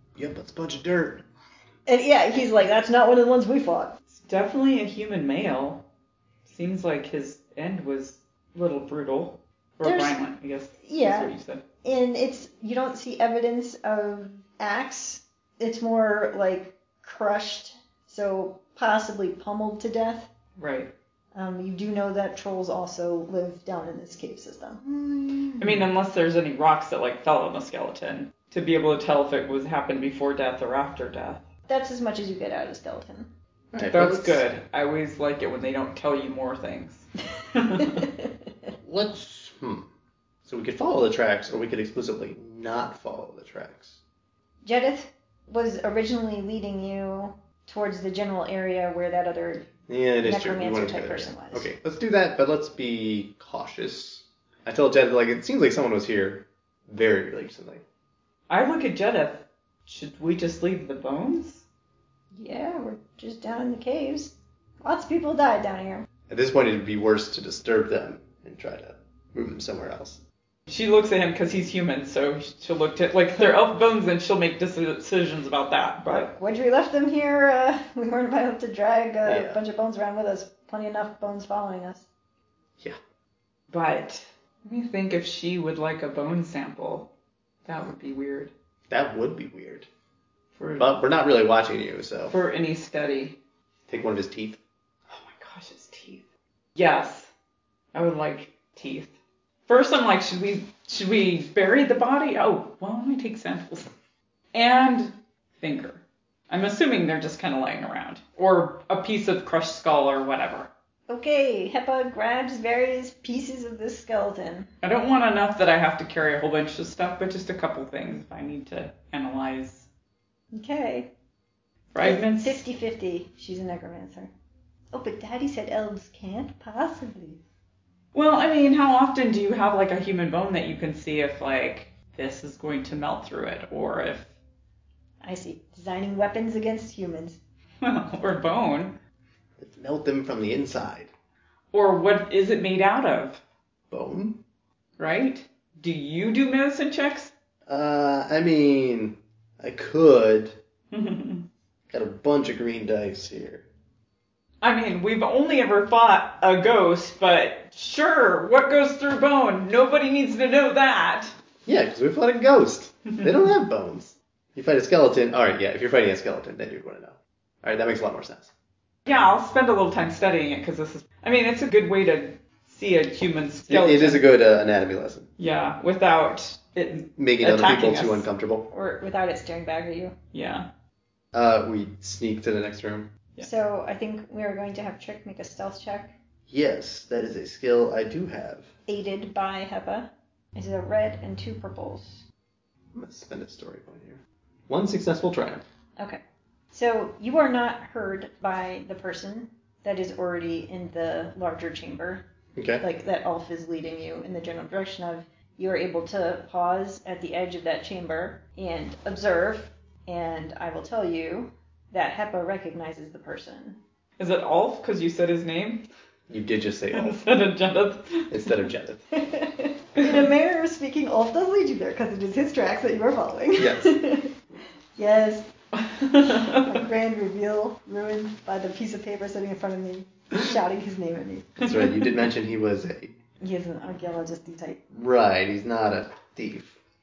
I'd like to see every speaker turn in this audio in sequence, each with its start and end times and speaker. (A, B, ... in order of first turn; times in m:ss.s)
0:00.2-0:01.2 A
0:01.9-0:04.0 B
0:04.1-0:05.8 C
0:06.5-0:11.6 C
0:09.8-0:10.3 B
0:10.8-0:11.3 B
0:11.8-0:20.3 B
0:20.6-0:20.9 C
0:21.3-0:25.6 B
0:25.6-0:31.4 C
0:31.7-0:33.3 B
0:33.7-0:34.5 A
0:33.8-0:38.0 C
0:37.8-0:38.3 B
0:38.8-0:39.9 A
0:40.4-0:44.0 A
0:44.6-0:49.7 B
0:49.9-0:57.8 A
0:50.2-0:51.7 B
0:58.5-1:01.6 C
1:02.3-1:06.1 B
1:06.3-1:10.2 A
1:10.7-1:16.3 C
1:16.1-1:22.1 B
1:19.2-1:19.6 A
1:23.7-1:27.1 C
1:27.6-1:28.5 C
1:28.9-1:29.9 A
1:30.6-1:30.9 C
1:30.8-1:32.3 A
1:32.3-1:33.4 C
1:33.9-1:34.6 A
1:35.1-1:36.2 C
1:36.8-1:37.3 C
1:37.9-1:39.1 C
1:39.7-1:43.9 C
1:44.5-1:50.7 C
1:51.1-1:54.7 B
1:54.8-1:59.9 C
2:00.5-2:01.1 B
2:01.9-2:02.6 C
2:02.0-2:04.3 B
2:04.9-2:07.4 B
2:08.1-2:14.3 C
2:15.2-2:17.4 B
2:17.8-2:19.0 C
2:19.6-2:21.1 A
2:21.7-2:23.4 C
2:23.9-2:24.4 A
2:25.0-2:27.3 C
2:27.7-2:30.6 A
2:30.9-2:31.5 C
2:31.9-2:33.7 A
2:34.6-2:41.3 C
2:41.7-2:48.5 A
2:49.1-2:54.2 C
2:53.7-2:55.3 A
2:55.4-2:58.2 C
2:57.2-2:58.7 A
2:58.7-3:00.2 B
3:00.3-3:00.7 C
3:01.3-3:03.1 A
3:03.4-3:06.1 B
3:06.5-3:08.7 A
3:08.9-3:12.2 B
3:12.9-3:15.6 A
3:16.7-3:22.2 B
3:22.6-3:22.8 A
3:22.8-3:33.8 B
3:34.2-3:35.9 C
3:36.3-3:37.2 A
3:36.9-3:38.7 C
3:38.3-3:39.0 A
3:39.1-3:44.4 B
3:40.0-3:40.3 C
3:43.6-3:44.0 A
3:45.0-3:45.5 B
3:45.8-3:46.8 C
3:46.2-3:51.8 B
3:51.6-3:53.1 A
3:53.4-3:54.8 B
3:54.9-3:56.8 A